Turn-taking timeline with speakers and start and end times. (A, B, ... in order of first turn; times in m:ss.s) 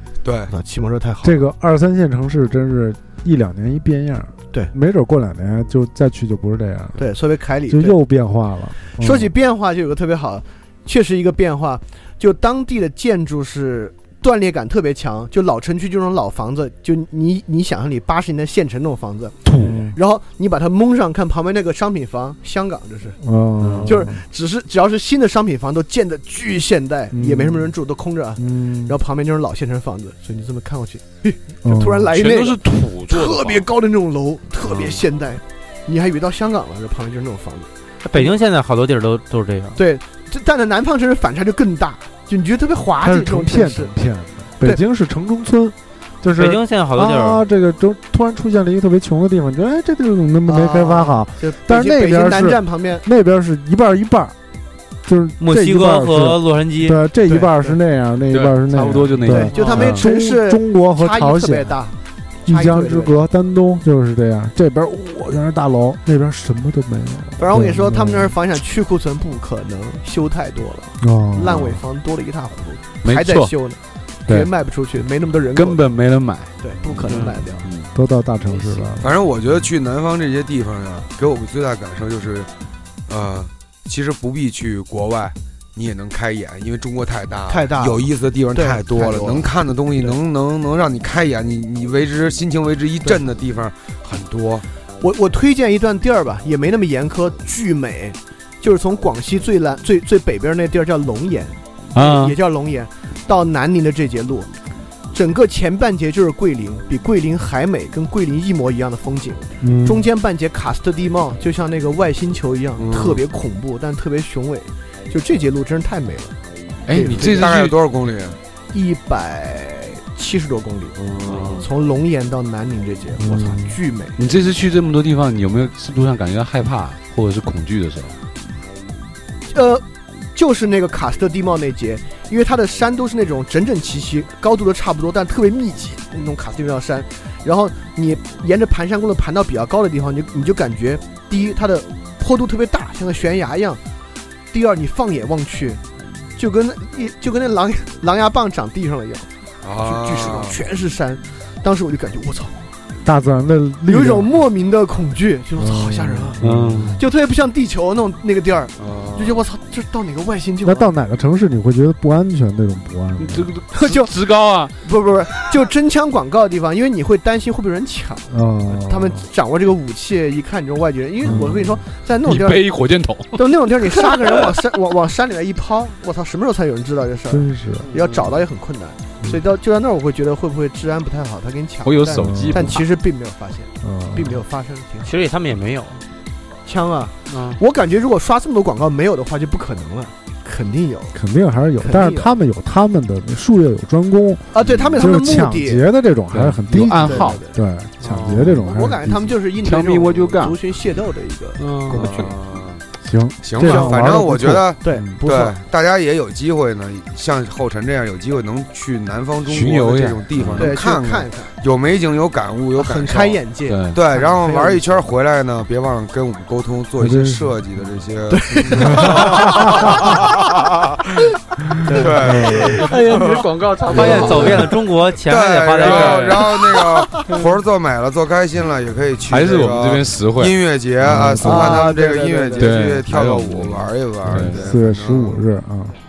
0:00.2-0:00.5 A
0:00.5-0:01.4 B
0:01.2-0:07.0 C
0:07.0-0:08.0 B
0:07.7-0:09.3 C
0:09.0-0:23.2 B
0:19.4-0:19.9 D
0:19.6-0:20.0 C
0:23.2-0:24.2 C
0:23.6-0:24.0 D
0:23.8-0:38.3 B
0:27.1-0:27.7 C
0:28.4-0:28.9 C
0:31.6-0:32.1 C
0:32.1-0:33.7 D
0:34.6-0:35.0 D
0:38.0-0:39.8 E
0:39.8-0:44.0 B
0:43.0-0:54.3 C
0:46.4-0:47.4 E
0:50.4-0:53.0 B
0:55.0-1:01.8 C
0:55.4-0:57.0 E
0:57.3-0:57.7 B
0:58.3-1:00.1 D
0:59.3-1:03.2 B
1:02.4-1:08.3 C
1:07.4-1:15.9 B
1:11.0-1:11.7 C
1:13.0-1:13.5 D
1:15.5-1:17.9 D
1:16.6-1:17.7 B
1:17.0-1:17.3 E
1:17.9-1:19.1 C
1:19.0-1:22.5 A
1:23.1-1:34.6 A
1:27.5-1:30.2 B
1:35.0-1:44.5 B
1:42.0-1:42.2 E
1:45.1-1:56.4 B
1:49.6-1:50.0 C
1:52.8-1:53.2 A
1:56.9-1:57.8 D
1:56.9-1:57.5 B
1:57.2-1:58.4 A
1:58.7-2:04.2 B
2:01.0-2:01.6 A
2:03.2-2:03.8 C
2:04.2-2:08.1 D
2:09.5-2:23.8 B
2:24.5-2:25.8 B
2:26.4-2:29.3 B
2:29.6-2:30.6 A
2:29.8-2:32.6 B
2:33.0-2:34.3 C
2:33.9-2:36.4 B
2:35.6-2:36.9 C
2:36.4-2:37.0 D
2:37.0-2:40.9 B
2:38.8-2:39.4 A
2:40.6-2:43.5 C
2:43.2-2:44.7 D
2:43.7-2:44.1 B
2:44.8-2:52.7 B
2:48.3-2:49.2 C
2:51.2-2:51.6 C
2:52.2-2:54.6 D
2:53.3-3:05.1 B
2:57.3-2:57.9 C
2:57.9-2:58.2 E
3:01.8-3:02.9 D
3:02.2-3:02.8 C
3:03.8-3:04.4 C
3:05.0-3:06.0 E
3:06.6-3:11.2 B
3:07.3-3:07.6 E
3:11.1-3:19.3 C
3:11.8-3:12.3 B
3:14.5-3:15.9 B
3:14.6-3:15.1 A
3:16.3-3:17.4 D
3:17.0-3:17.6 B
3:18.0-3:18.6 E
3:18.3-3:18.7 D
3:18.7-3:22.3 B
3:19.5-3:20.6 D
3:21.6-3:22.2 E
3:21.9-3:22.8 A
3:23.0-3:25.2 C
3:23.4-3:33.4 A
3:23.6-3:24.2 B
3:24.8-3:25.5 B
3:29.4-3:30.7 D
3:30.5-3:31.5 B
3:32.8-3:34.8 B
3:33.7-3:34.0 D
3:33.9-3:40.8 A
3:37.0-3:37.5 C
3:38.3-3:40.2 B
3:38.9-3:39.8 C
3:41.9-3:44.4 B
3:41.9-3:55.4 A
3:42.2-3:42.7 C
3:42.7-3:46.6 E
3:45.8-3:46.5 D
3:49.3-3:51.5 D
3:51.0-3:51.8 C
3:51.4-3:52.8 B
3:52.6-3:54.7 D
3:54.3-3:55.9 C